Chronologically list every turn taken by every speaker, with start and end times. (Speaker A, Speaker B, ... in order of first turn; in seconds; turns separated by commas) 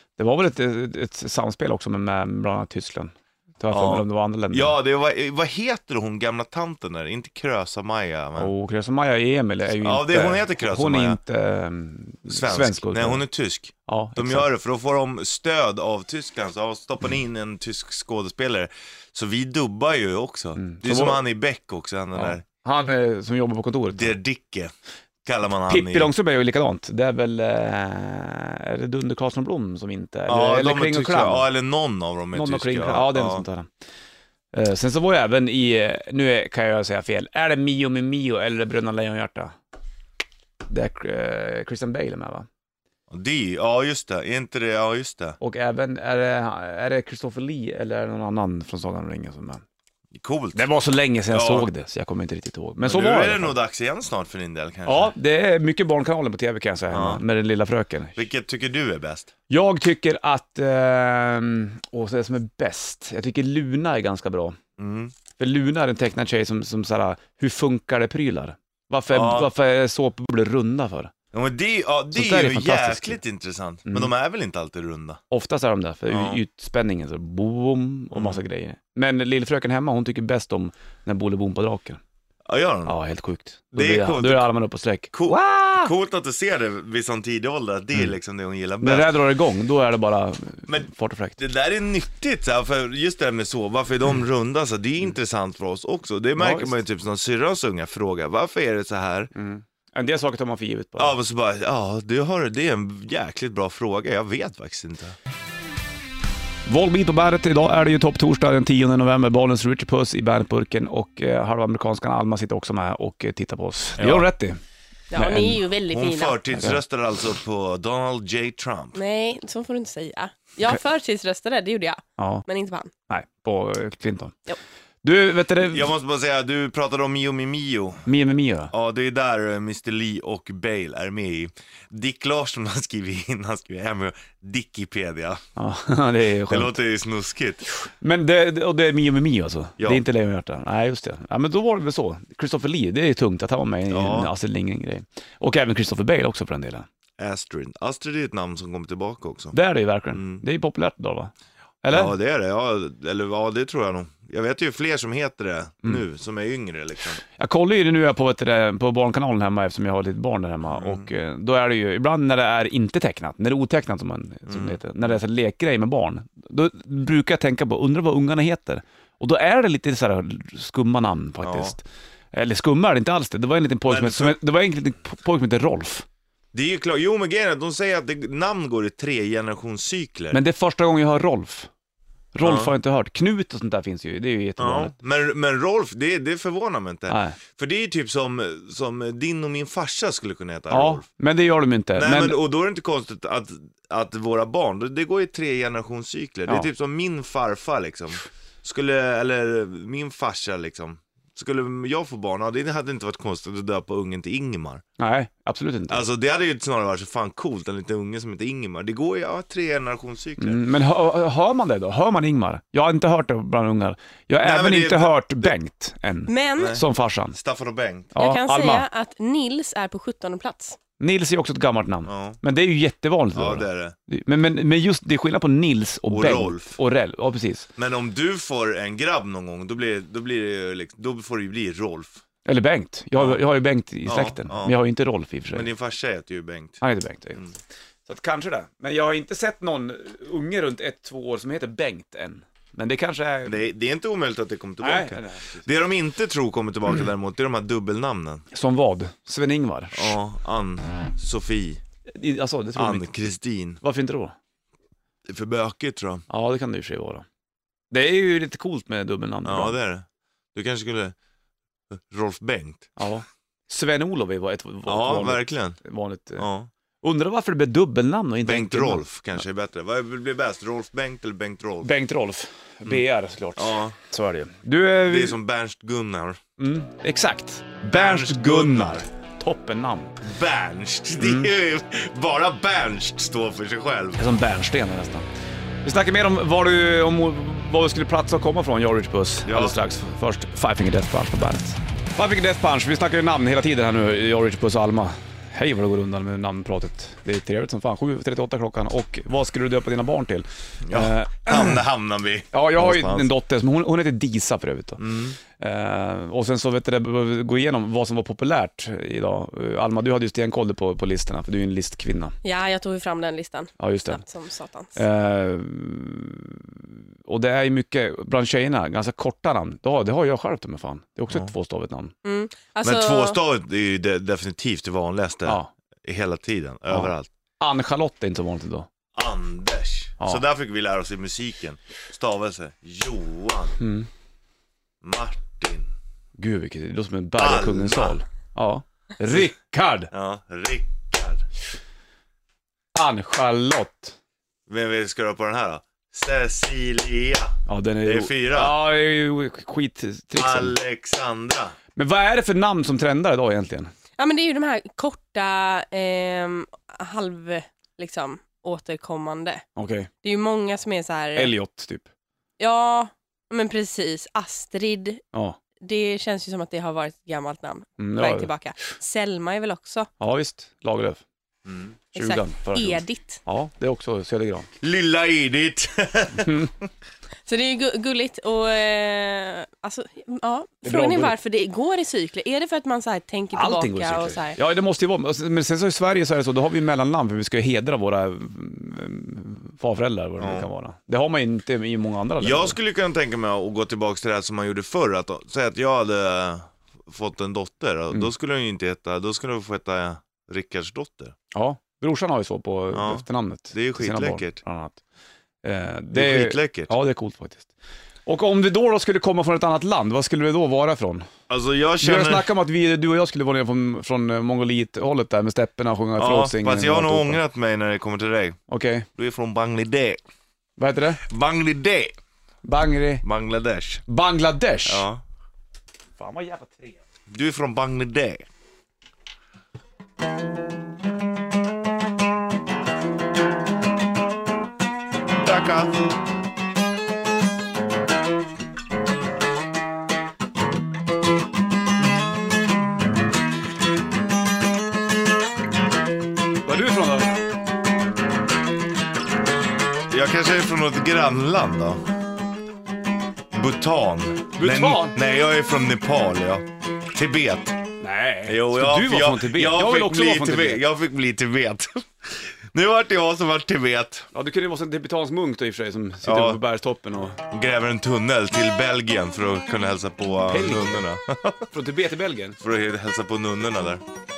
Speaker A: 0.2-4.8, Speaker B: 3.7-8.5, Speaker A: 8.4-13.2, Speaker B: 9.8-11.2, Speaker B: 12.3-22.4, Speaker A: 13.9-14.5, Speaker A: 20.6-21.2, Speaker A: 22.1-24.2, Speaker B: 23.9-24.7, Speaker B: 25.2-26.1, Speaker A: 25.7-31.5, Speaker B: 30.3-33.4, Speaker A: 32.3-33.7, Speaker A: 34.5-39.5, Speaker A: 40.7-42.5, Speaker B: 43.1-45.4, Speaker A: 45.4-49.6, Speaker B: 50.1-50.7, Speaker A: 50.5-53.6, Speaker B: 51.3-51.7, Speaker B: 52.8-55.1, Speaker A: 54.9-58.2, Speaker B: 56.9-57.2, Speaker B: 58.2-59.3, Speaker A: 59.5-64.6, Speaker B: 64.8-65.1, Speaker A: 65.4-71.1, Speaker B: 69.1-69.5, Speaker B: 71.3-75.2, Speaker A: 72.1-73.2, Speaker A: 75.3-82.0, Speaker B: 76.1-76.4, Speaker B: 78.1-78.4, Speaker B: 82.5-83.0, Speaker A: 82.9-85.9, Speaker B: 83.7-84.5, Speaker B: 85.1-89.1, Speaker A: 88.8-91.4, Speaker B: 90.7-99.3, Speaker A: 96.4-96.8, Speaker A: 99.3-101.2, Speaker B: 101.0-105.2, Speaker A: 106.7-114.6, Speaker B: 114.0-114.3, Speaker C: 115.1-116.4, Speaker A: 115.2-115.6, Speaker B: 115.9-119.0, Speaker A: 116.5-116.8, Speaker C: 119.0-122.9, Speaker A: 122.2-122.4, Speaker A: 123.1-124.4, Speaker A: 125.0-125.9, Speaker B: 125.6-128.1, Speaker A: 128.1-128.7, Speaker B: 128.7-135.4, Speaker A: 135.6-136.8, Speaker B: 136.5-137.7, Speaker A: 137.8-146.9, Speaker B: 143.9-144.3, Speaker B: 147.2-149.6, Speaker A: 149.5-151.3, Speaker B: 150.1-150.4, Speaker A: 151.8-152.2, Speaker B: 151.9-157.2, Speaker A: 157.4-176.1, Speaker B: 160.7-161.1, Speaker B: 164.5-164.8, Speaker B: 171.4-171.8, Speaker B: 173.9-174.4, Speaker B: 176.5-180.4, Speaker A: 180.3-181.7, Speaker A: 182.3-184.9, Speaker B: 182.4-182.7, Speaker B: 184.6-191.1, Speaker A: 187.1-187.4, Speaker A: 190.7-192.4, Speaker B: 192.0-204.8, Speaker A: 205.0-206.0, Speaker B: 205.9-210.6, Speaker A: 210.4-217.4, Speaker B: 214.4-215.5, Speaker C: 216.3-216.8, Speaker B: 216.6-218.1, Speaker A: 218.2-218.9, Speaker C: 218.2-220.8, Speaker A: 221.0-227.7, Speaker B: 222.1-222.4, Speaker B: 223.3-224.0, Speaker B: 226.1-226.8, Speaker B: 227.8-232.2, Speaker A: 232.5-235.7, Speaker B: 233.2-233.4, Speaker B: 234.1-234.8, Speaker B: 235.5-236.8, Speaker A: 236.8-237.5, Speaker A: 238.1-243.6, Speaker B: 243.4-248.4, Speaker A: 244.8-245.6, Speaker A: 248.5-250.2, Speaker B: 249.9-251.8, Speaker A: 252.1-253.1, Speaker B: 252.8-253.8, Speaker A: 253.8-254.3, Speaker B: 255.3-256.2, Speaker A: 256.3-257.3, Speaker A: 257.9-259.8, Speaker B: 259.4-261.1, Speaker B: 261.9-262.9, Speaker A: 263.0-266.5, Speaker B: 264.9-265.8, Speaker B: 266.4-266.7, Speaker A: 267.0-269.0, Speaker B: 268.4-271.9, Speaker A: 271.8-275.4, Speaker B: 273.6-274.0, Speaker B: 275.1-276.4, Speaker A: 276.6-280.2, Speaker B: 277.9-279.1, Speaker B: 280.2-284.2, Speaker A: 281.2-281.5, Speaker A: 284.2-285.3, Speaker A: 285.8-301.8, Speaker B: 289.4-289.8, Speaker B: 300.8-303.3, Speaker A: 302.5-305.1, Speaker B: 305.0-305.4, Speaker A: 305.6-312.3, Speaker C: 312.4-315.0, Speaker A: 313.8-314.2, Speaker A: 315.0-322.1, Speaker C: 322.2-323.4, Speaker B: 322.8-327.3, Speaker A: 326.9-328.9, Speaker B: 329.1-333.8, Speaker A: 333.8-334.1, Speaker B: 335.0-335.9, Speaker A: 336.4-340.1, Speaker B: 337.4-338.2, Speaker B: 340.1-341.4, Speaker A: 342.9-344.2, Speaker B: 344.7-348.8, Speaker A: 347.7-350.8, Speaker B: 350.4-351.8, Speaker A: 352.0-353.9, Speaker C: 354.2-359.6, Speaker A: 359.8-360.1, Speaker C: 360.2-361.5, Speaker A: 361.4-362.1, Speaker C: 362.6-365.2, Speaker C: 365.8-370.1, Speaker A: 368.0-368.5, Speaker A: 370.2-371.2, Speaker B: 371.7-371.9, Speaker A: 372.1-374.7, Speaker C: 372.1-373.4, Speaker B: 374.8-376.9, Speaker A: 376.4-376.7, Speaker C: 377.5-384.6, Speaker A: 380.8-381.4, Speaker A: 383.5-392.8, Speaker B: 390.4-390.7, Speaker B: 392.4-401.4, Speaker A: 401.5-405.0, Speaker B: 402.9-404.6, Speaker A: 405.6-407.7, Speaker B: 406.1-406.9, Speaker A: 408.3-411.3, Speaker B: 411.5-412.5, Speaker A: 412.0-417.4, Speaker B: 416.2-418.6, Speaker A: 418.7-419.1, Speaker B: 419.1-420.2, Speaker A: 420.8-421.2, Speaker B: 421.2-422.2, Speaker A: 422.6-423.2, Speaker B: 423.2-424.0, Speaker A: 424.1-425.1, Speaker B: 424.9-425.2, Speaker A: 426.2-427.0, Speaker B: 427.3-428.4, Speaker B: 435.3-436.2, Speaker B: 442.0-442.6, Speaker A: 446.6-447.4, Speaker B: 450.1-452.0, Speaker B: 453.5-457.8, Speaker A: 454.6-455.2, Speaker A: 458.0-460.8, Speaker B: 458.5-464.3, Speaker A: 464.3-467.4, Speaker B: 466.2-466.6, Speaker B: 467.5-471.7, Speaker A: 470.5-471.0, Speaker A: 471.7-472.6, Speaker B: 472.6-474.0